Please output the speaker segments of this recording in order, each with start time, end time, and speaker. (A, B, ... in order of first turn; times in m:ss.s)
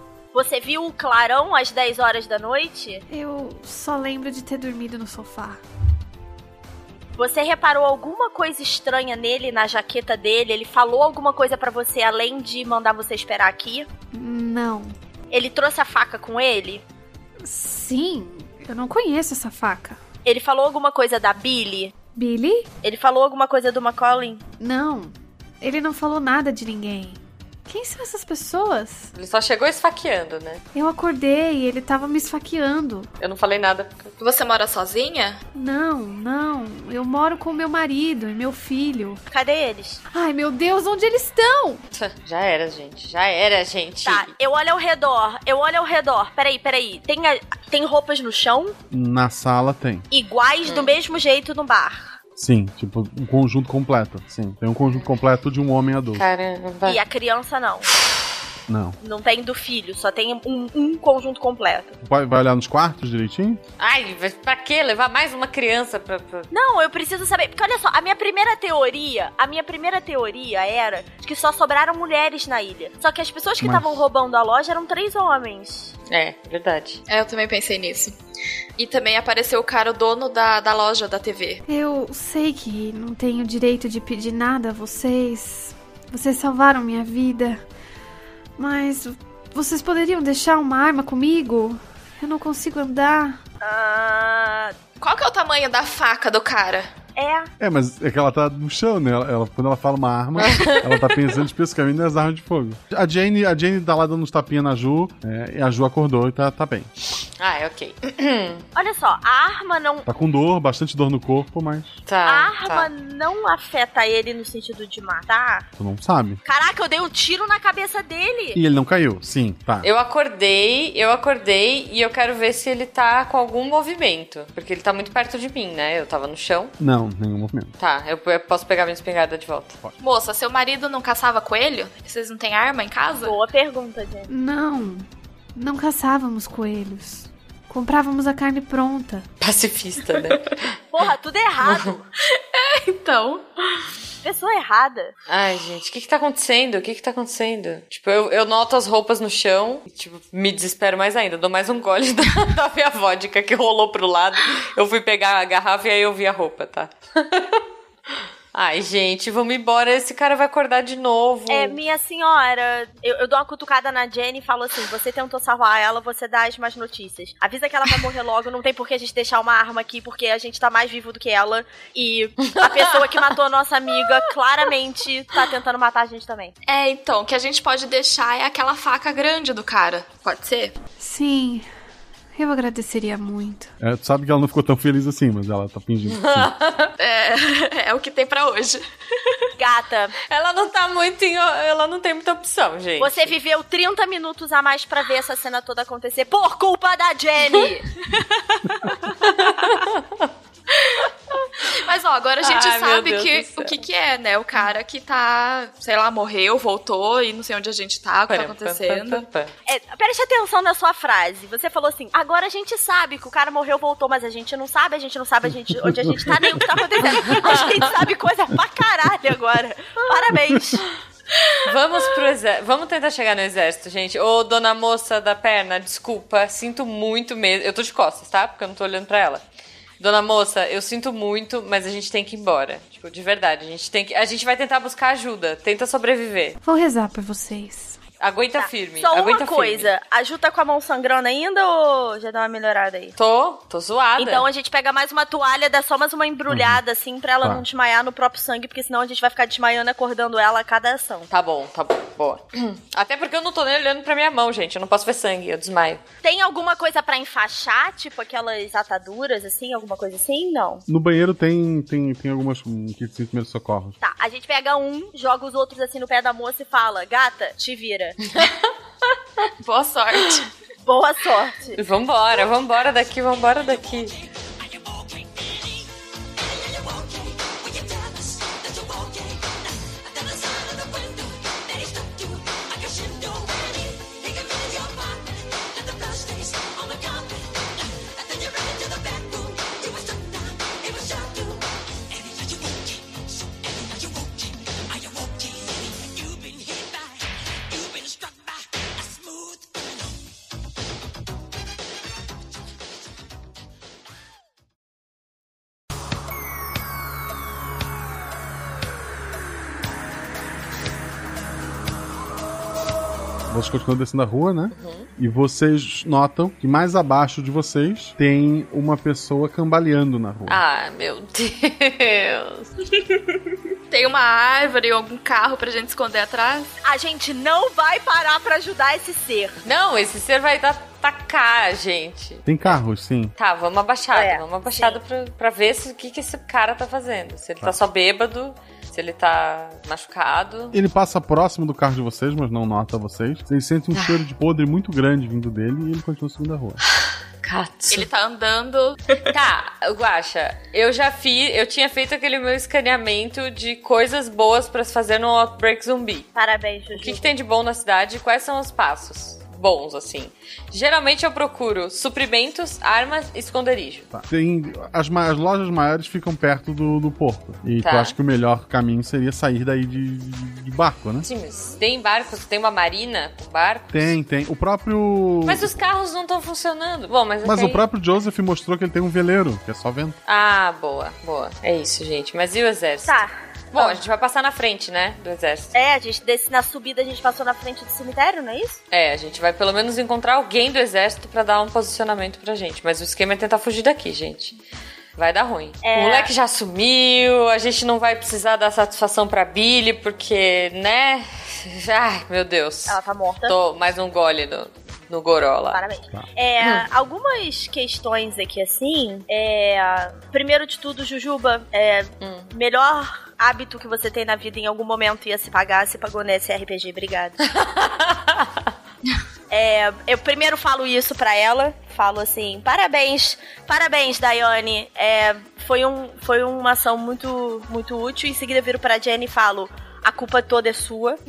0:00.3-0:03.0 A
0:03.1-0:05.6 B
0:07.2-0:13.9 A
0:14.1-0:15.0 B
0:15.3-0:16.8 A
0:17.4-0:20.0 B
0:20.3-0:21.9 A
0:22.2-0:22.7 B
0:22.8-0:24.4 A
0:24.6-0:29.1 B
0:29.1-0:30.6 C
0:30.7-0:33.1 B
0:33.2-0:34.1 C
0:34.2-0:35.4 D
0:35.5-0:39.2 B
0:39.3-0:40.0 A
0:40.1-0:41.8 B
0:41.9-0:44.3 C
0:44.0-0:48.8 A
0:48.9-0:50.1 E
0:50.1-0:52.2 A
0:50.6-0:50.9 C
0:52.4-0:56.2 E
0:56.2-0:57.0 C
0:56.8-0:57.9 A
0:58.7-0:59.0 E
0:59.0-1:02.0 A
1:02.0-1:03.6 E
1:03.8-1:06.5 C
1:06.5-1:15.9 A
1:13.6-1:14.0 E
1:16.1-1:17.0 C
1:17.1-1:18.2 D
1:18.8-1:21.6 D
1:21.7-1:27.6 B
1:28.6-1:33.4 B
1:33.6-1:34.8 A
1:35.0-1:36.9 D
1:37.2-1:37.5 A
1:37.6-1:46.9 E
1:40.4-1:41.0 C
1:47.4-1:48.6 C
1:48.8-1:50.1 A
1:50.1-1:52.0 E
1:52.1-1:52.9 C
1:52.3-1:55.7 A
1:55.8-1:56.4 E
1:56.4-1:58.6 A
1:58.6-1:59.9 E
1:59.8-2:06.7 C
2:06.8-2:07.7 E
2:07.8-2:09.8 C
2:10.0-2:13.4 D
2:13.2-2:14.3 A
2:14.3-2:19.3 B
2:19.4-2:20.7 C
2:20.9-2:22.0 A
2:22.3-2:23.8 D
2:24.2-2:25.1 A
2:25.3-2:37.6 C
2:38.5-2:41.8 C
2:41.5-2:56.5 A
2:52.4-2:53.0 C
2:56.7-3:00.8 D
3:01.0-3:01.7 B
3:02.4-3:03.7 B
3:03.8-3:06.5 E
3:06.1-3:06.9 C
3:07.0-3:08.8 D
3:09.6-3:10.1 A
3:10.3-3:13.3 C
3:13.0-3:17.8 A
3:19.2-3:20.3 C
3:20.7-3:21.1 D
3:21.6-3:29.2 D
3:22.4-3:23.8 C
3:28.3-3:29.5 C
3:29.7-3:40.8 A
3:35.9-3:36.4 E
3:37.3-3:37.7 C
3:41.6-3:49.4 C
3:50.0-3:56.6 C
3:56.6-3:58.0 B
3:58.2-3:59.9 C
3:58.5-4:03.2 A
4:03.2-4:04.5 C
4:04.2-4:11.3 A
4:06.5-4:06.8 E
4:11.3-4:16.0 C
4:16.2-4:20.8 A
4:20.9-4:24.0 E
4:24.0-4:28.2 A
4:29.6-4:30.5 D
4:30.8-4:31.8 A
4:31.8-4:34.2 C
5:13.5-5:20.6 E
5:14.7-5:15.1 C
5:20.5-5:22.7 C
5:23.9-5:26.7 D
5:26.8-5:29.6 A
5:29.6-5:32.8 C
5:32.4-5:33.3 E
5:33.4-5:40.8 C
5:34.1-5:35.0 A
5:40.7-5:46.8 E
5:44.0-5:44.2 C
5:47.4-5:48.1 C
5:47.9-5:49.0 D
5:49.3-5:56.3 C
5:56.4-5:57.3 A
5:57.0-6:04.1 C
6:04.1-6:11.3 E
6:07.8-6:08.2 C
6:11.2-6:14.2 C
6:13.9-6:15.7 E
6:15.5-6:17.8 C
6:17.4-6:20.2 E
6:20.3-6:25.7 C
6:23.1-6:24.0 A
6:25.7-6:28.8 A
6:28.9-6:34.6 C
6:35.2-6:45.8 C
6:35.8-6:36.3 A
6:42.9-6:43.5 A
6:45.7-6:57.4 A
6:52.2-6:52.5 C
6:57.4-6:58.7 C
6:59.5-7:11.2 A